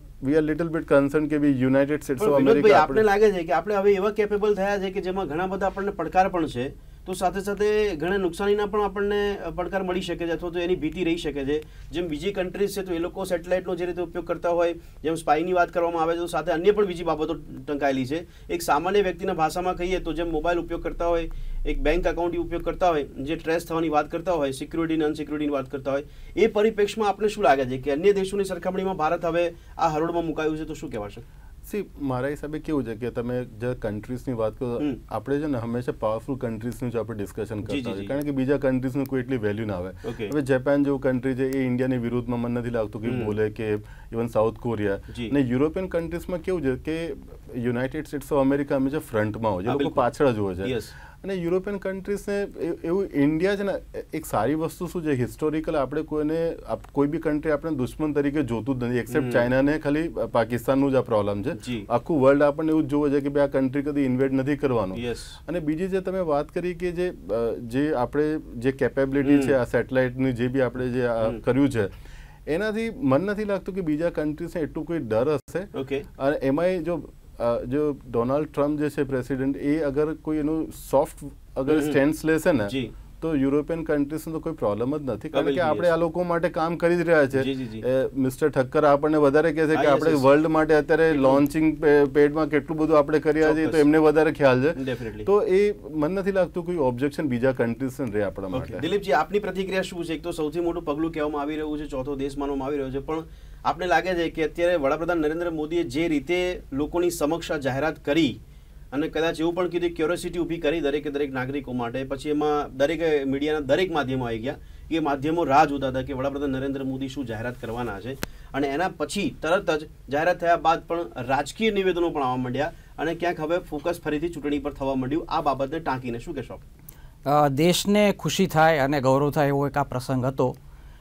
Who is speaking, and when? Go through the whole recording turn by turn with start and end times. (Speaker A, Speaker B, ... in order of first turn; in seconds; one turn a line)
Speaker A: 0.2-3.0
Speaker B: 2.2-31.2
Speaker A: 31.6-71.9
Speaker B: 37.6-38.1
Speaker B: 40.0-40.3
Speaker B: 43.0-43.3
Speaker B: 49.7-50.0
Speaker B: 50.6-50.9
Speaker B: 59.1-59.4
Speaker B: 61.6-61.9
Speaker B: 64.9-65.3
Speaker B: 69.2-69.5
Speaker A: 72.5-98.8
Speaker B: 75.7-76.0
Speaker B: 81.7-82.0
Speaker B: 82.7-82.9
Speaker B: 85.3-85.9
Speaker B: 87.3-87.8
Speaker B: 89.7-90.2
Speaker B: 93.4-93.8
Speaker B: 94.8-95.2
Speaker B: 98.5-108.4
Speaker B: 108.9-126.6
Speaker C: 127.2-130.6